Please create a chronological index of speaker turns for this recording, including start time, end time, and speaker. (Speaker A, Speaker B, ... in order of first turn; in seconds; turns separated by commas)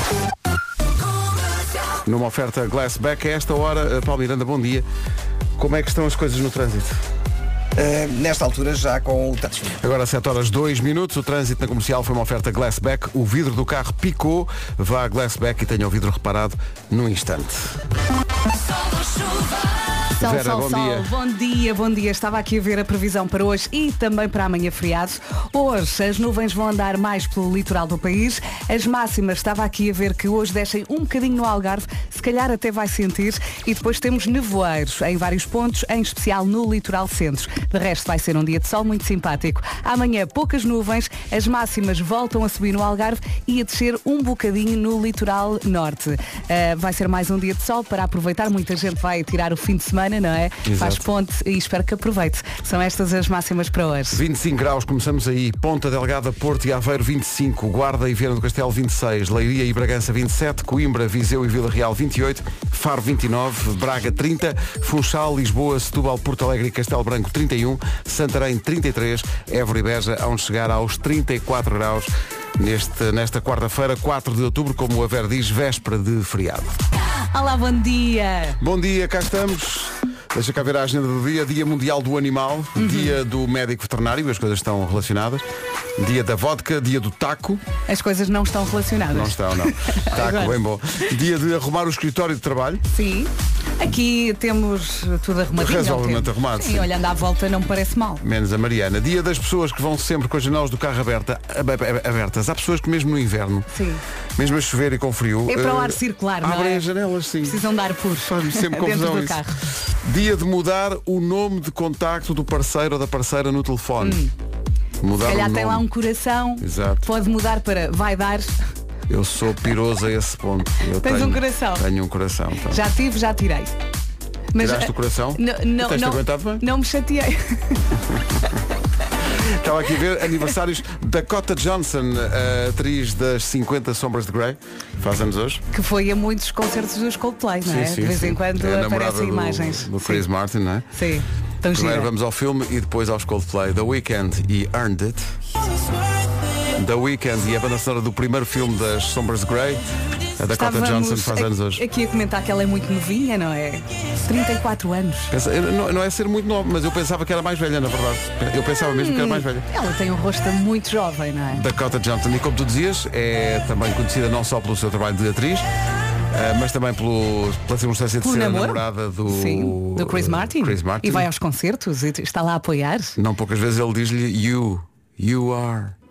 Speaker A: 2.1-4.9, Speaker A: 5.6-7.0, Speaker B: 7.8-9.8, Speaker A: 9.8-17.8, Speaker C: 20.2-54.2, Speaker A: 20.2-21.1, Speaker A: 50.6-51.0, Speaker A: 54.1-76.8, Speaker C: 77.3-78.6, Speaker A: 78.6-85.5, Speaker C: 82.8-83.2, Speaker A: 86.0-87.6, Speaker C: 87.9-90.6, Speaker A: 89.1-92.8, Speaker C: 92.9-98.2, Speaker A: 95.6-96.9, Speaker A: 98.2-103.7, Speaker C: 103.7-104.0, Speaker A: 104.4-107.6, Speaker C: 105.5-106.9, Speaker C: 107.4-109.6, Speaker A: 108.2-109.4, Speaker A: 110.0-114.2, Speaker C: 114.0-114.3, Speaker A: 115.0-115.9, Speaker C: 115.2-118.6, Speaker A: 116.6-117.1, Speaker A: 119.1-122.8, Speaker C: 121.0-121.8, Speaker C: 122.7-123.8, Speaker C: 124.5-127.8, Speaker A: 124.6-126.7, Speaker A: 129.3-135.6, Speaker C: 135.7-140.3, Speaker A: 137.6-140.9, Speaker C: 140.9-142.1, Speaker A: 141.7-145.3, Speaker A: 146.7-149.8, Speaker A: 150.4-151.8, Speaker C: 150.5-155.3, Speaker A: 155.3-159.7, Speaker C: 159.0-161.6, Speaker A: 161.5-165.7, Speaker A: 166.3-171.3, Speaker C: 168.2-173.2, Speaker A: 173.2-175.9